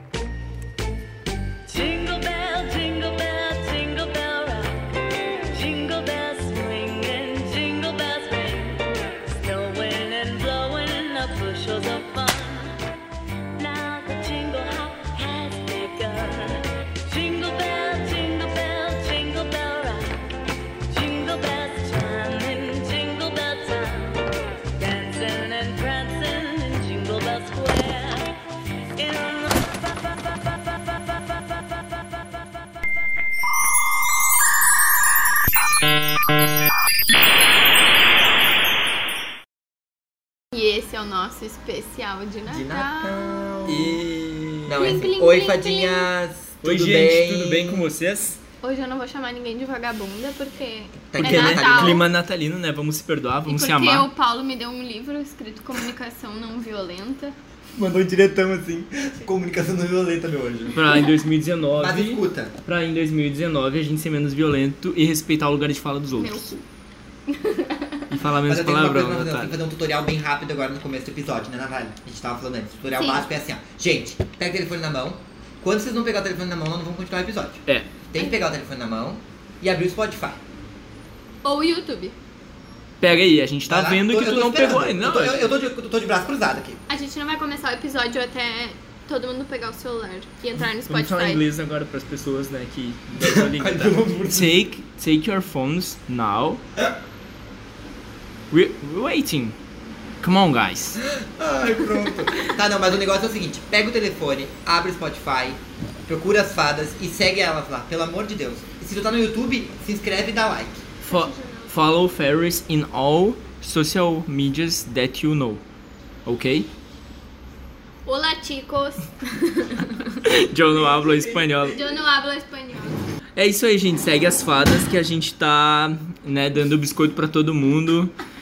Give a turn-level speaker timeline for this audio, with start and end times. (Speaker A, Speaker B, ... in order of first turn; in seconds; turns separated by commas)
Speaker A: 1.7-12.8, Speaker A: 13.6-20.2, Speaker A: 20.9-28.4, Speaker A: 29.0-29.5, Speaker B: 40.5-43.6, Speaker C: 42.5-44.0, Speaker D: 43.7-44.9, Speaker C: 44.7-47.9, Speaker B: 44.8-46.1, Speaker D: 46.6-48.4, Speaker B: 48.6-52.1, Speaker C: 51.1-52.0, Speaker D: 51.2-54.1, Speaker B: 53.5-57.4, Speaker C: 57.8-61.0, Speaker D: 60.8-66.6, Speaker C: 61.8-62.5, Speaker B: 66.2-66.6, Speaker B: 67.3-68.0, Speaker D: 68.1-69.5, Speaker C: 68.5-80.4, Speaker B: 73.0-73.2, Speaker B: 81.4-82.1, Speaker D: 83.0-85.5, Speaker C: 83.7-86.8, Speaker B: 86.9-91.4, Speaker D: 90.8-96.6, Speaker C: 93.2-94.7, Speaker D: 98.5-99.6, Speaker D: 100.2-101.0, Speaker C: 101.0-110.8, Speaker D: 111.0-115.6, Speaker B: 111.1-111.7, Speaker D: 116.3-116.7, Speaker B: 118.1-120.2, Speaker D: 120.2-121.8, Speaker C: 121.0-121.8, Speaker B: 121.7-123.0, Speaker D: 123.4-128.2